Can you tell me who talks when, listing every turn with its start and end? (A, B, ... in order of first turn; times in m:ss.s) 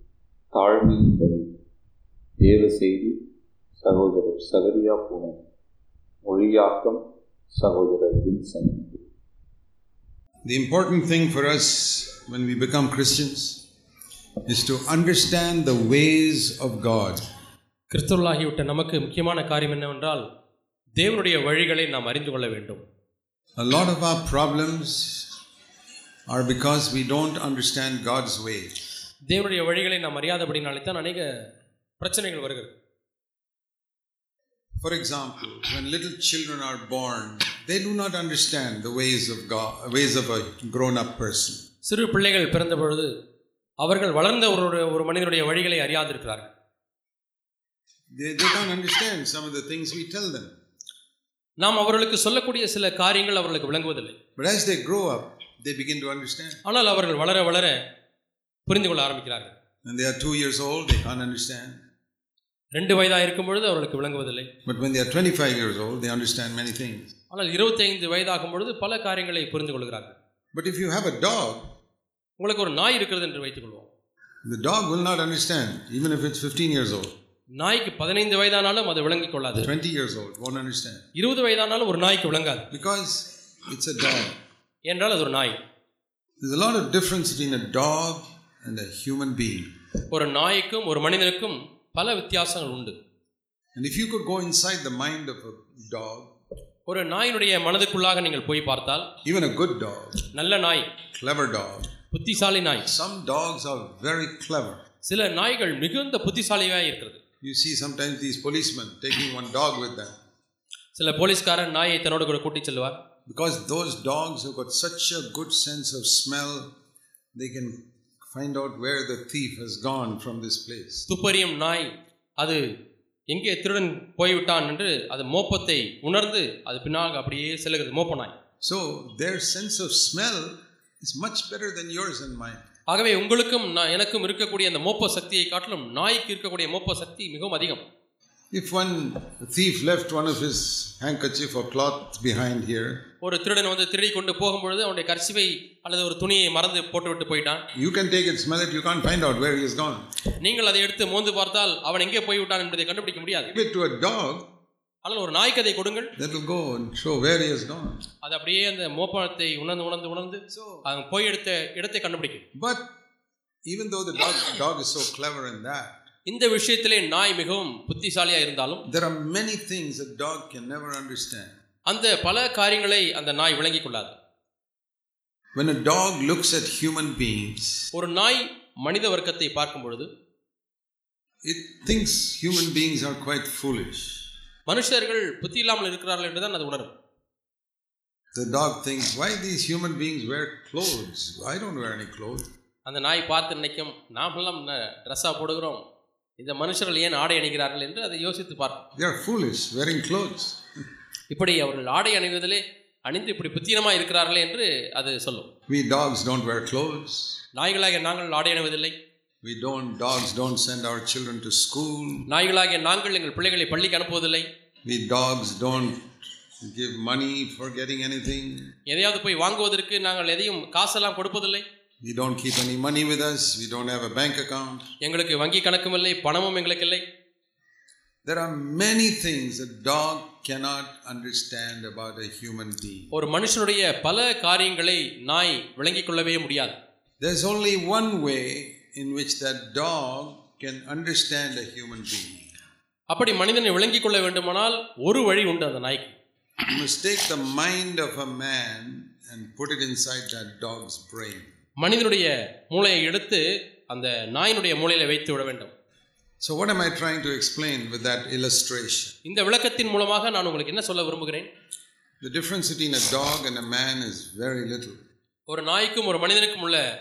0:00.5-0:01.5 A
0:02.4-0:03.2 A
0:03.8-0:05.4 A
0:06.2-0:09.0 A
0:10.4-0:13.6 B
0:14.5-0:17.2 B
0:17.9-0:20.2 C
0:21.0-0:22.8 C
0:23.6-0:25.3 B
0:26.3-0:28.7 B
0:29.3-0:31.3 C
0:32.0-0:32.7 C
0:34.8-0:41.6 B
0:41.8-0:43.1 C
0:43.8-0:46.5 C
0:48.1-0:50.5 B
0:51.6-0:54.2 C
0:54.4-0:56.6 B
0:56.6-0:57.8 C
0:58.7-0:59.5 C
0:59.8-1:01.8 B
1:02.7-1:04.5 C
1:04.7-1:07.1 B
1:07.3-1:10.2 C
1:10.5-1:11.6 B
1:12.4-1:13.9 C
1:14.4-1:17.1 B
1:17.6-1:19.7 C
1:19.6-1:21.0 B
1:21.2-1:22.7 C
1:22.7-1:24.4 B
1:24.9-1:25.6 C
1:26.4-1:29.7 B
1:30.1-1:33.0 C
1:33.8-1:36.3 B
1:36.9-1:39.1 C
1:39.2-1:40.2 B
1:40.3-1:40.9 C
1:41.1-1:41.9 B
1:42.1-1:42.9 C
1:42.8-1:44.8 B
1:45.0-1:47.2 C
1:47.4-1:50.2 B
1:51.0-1:53.0 C
1:53.3-1:56.7 B
1:57.3-2:01.1 B
2:01.1-2:02.6 C
2:03.3-2:08.3 C
2:08.6-2:12.6 B
2:12.9-2:17.8 C
2:18.5-2:23.0 B
2:23.2-2:27.6 C
2:27.8-2:30.1 B
2:30.4-2:33.5 C
2:33.3-2:34.5 B
2:35.0-2:36.1 C
2:36.2-2:38.0 B
2:38.2-2:42.4 C
2:40.5-2:40.9 B
2:42.6-2:42.9 B
2:43.7-2:46.0 B
2:46.3-2:48.8 C
2:48.9-2:51.6 B
2:51.9-2:54.2 C
2:55.6-2:57.9 B
2:57.9-3:00.1 C
3:01.4-3:04.3 B
3:04.7-3:06.9 C
3:08.3-3:12.5 B
3:12.9-3:15.8 C
3:16.4-3:18.8 C
3:19.0-3:20.6 B
3:21.3-3:25.5 C
3:25.7-3:27.4 B
3:27.6-3:29.0 C
3:29.4-3:32.2 B
3:32.3-3:34.5 C
3:34.8-3:36.1 B
3:36.6-3:38.7 B
3:38.9-3:41.6 C
3:42.0-3:44.9 B
3:45.0-3:47.0 C
3:48.2-3:53.1 B
3:53.1-3:56.8 C
3:57.2-4:02.5 B
4:03.1-4:06.2 C
4:06.6-4:11.5 B
4:11.8-4:15.7 C
4:16.4-4:19.2 B
4:19.2-4:21.5 C
4:22.2-4:25.0 B
4:25.5-4:26.8 C